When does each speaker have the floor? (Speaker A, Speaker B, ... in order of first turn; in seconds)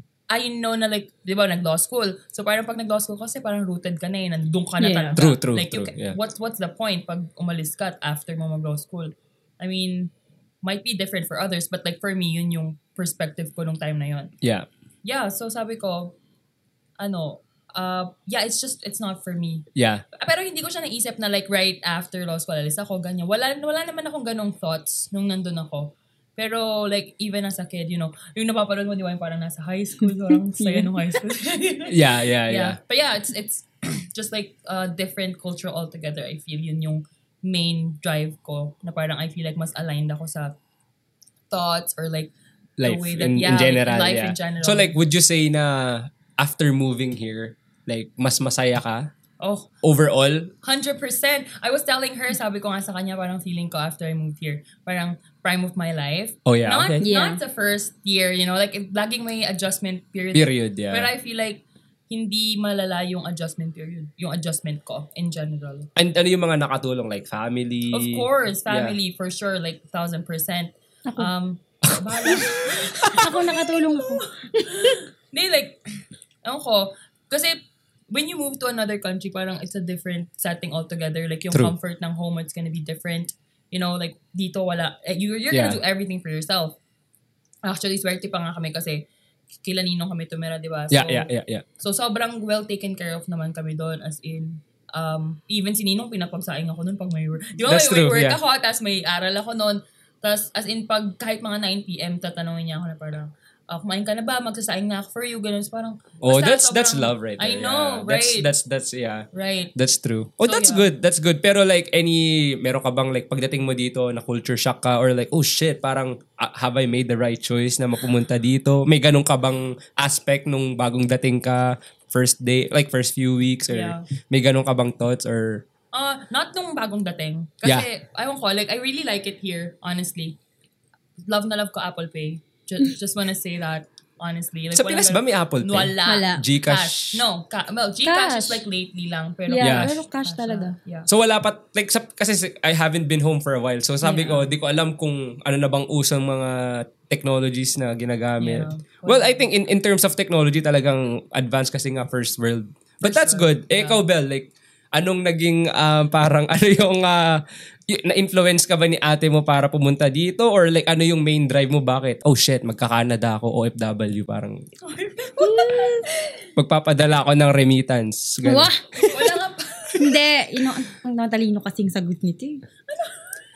Speaker A: 0.3-10.1, 10.6-14.3, 15.0-16.2, 17.0-19.6, 20.2-31.9, 32.5-40.6, 41.5-44.9, 49.4-49.7, 50.6-65.9, 67.9-75.8, 76.5-77.6, 78.1-86.8, 87.6-89.0, 89.6-91.3, 91.8-108.5, 109.3-109.7, 110.4-110.9, 123.7-124.0, 125.9-130.4, 131.3-141.1, 144.0-144.5, 148.4-149.5, 153.0-154.0, 164.8-166.3, 169.1-170.2, 172.9-173.2
Speaker B: 4.8-5.2, 30.6-30.9, 57.0-57.4, 73.2-75.0, 136.1-136.4, 138.0-138.6, 139.5-140.8, 165.4-166.1, 168.4-169.1, 170.0-172.6
Speaker C: 5.2-6.2, 19.8-20.0, 31.9-32.8, 42.8-49.1, 49.8-50.5, 56.5-57.0, 60.3-61.1, 66.0-69.0, 71.8-73.2, 85.5-85.8, 90.9-91.7, 97.7-98.4, 106.2-125.6, 134.8-137.2, 139.6-139.9, 141.1-157.4, 157.9-164.6, 166.6-168.7